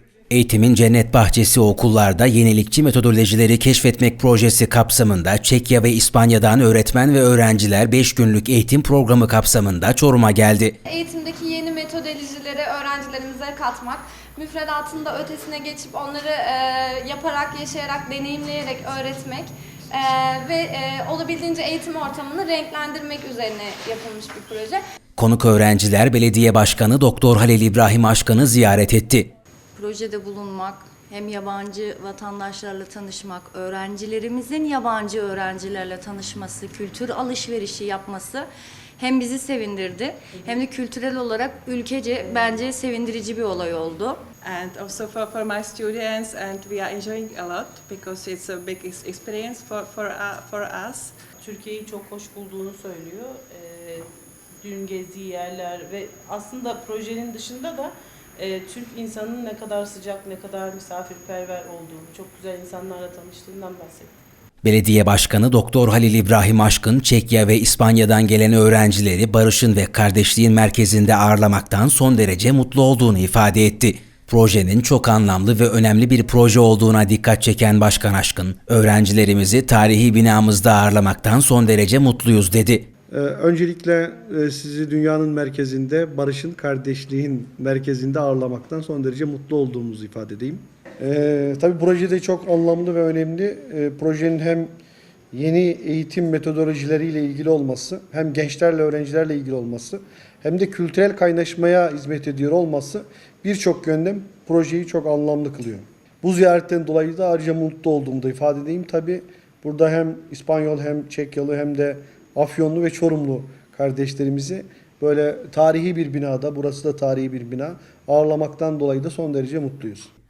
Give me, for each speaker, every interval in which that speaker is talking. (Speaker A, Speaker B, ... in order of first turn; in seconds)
Speaker A: 0.3-10.7, 25.2-29.3, 64.6-82.8
Speaker B: 10.8-24.8
Speaker C: 29.8-44.2
Speaker D: 42.2-42.6, 51.4-54.1, 54.6-64.2
Speaker E: 44.4-51.1
Speaker F: 83.1-94.7, 95.3-120.1